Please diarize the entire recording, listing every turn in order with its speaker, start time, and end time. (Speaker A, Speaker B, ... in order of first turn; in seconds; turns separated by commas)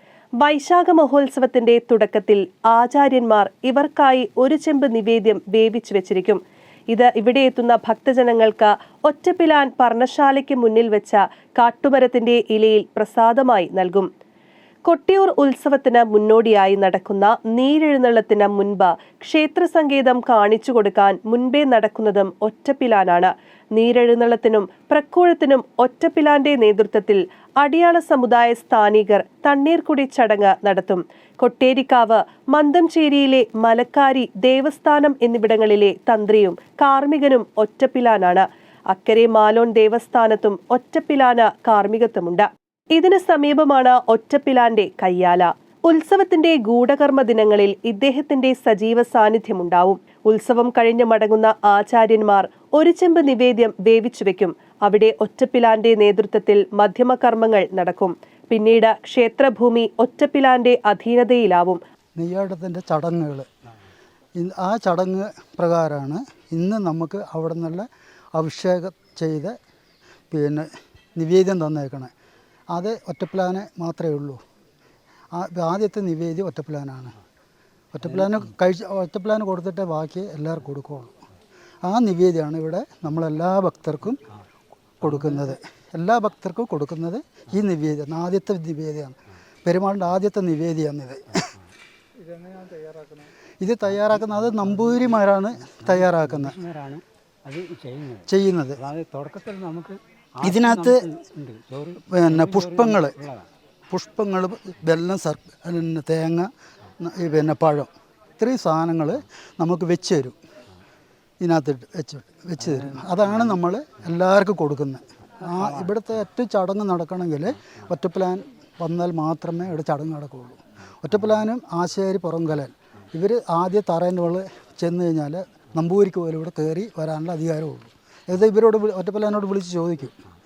Speaker A: 0.4-14.1, Speaker A: 14.9-61.8, Speaker B: 62.2-63.5, Speaker B: 64.4-69.5, Speaker B: 70.3-72.1, Speaker B: 72.7-74.4, Speaker B: 75.3-77.1, Speaker B: 77.9-81.1, Speaker B: 81.8-84.2, Speaker B: 85.0-91.5, Speaker B: 93.6-96.6, Speaker C: 96.1-98.2, Speaker B: 98.3-98.8, Speaker C: 98.8-103.5, Speaker B: 100.4-101.0, Speaker B: 102.1-103.2, Speaker B: 103.9-110.3, Speaker B: 111.4-130.2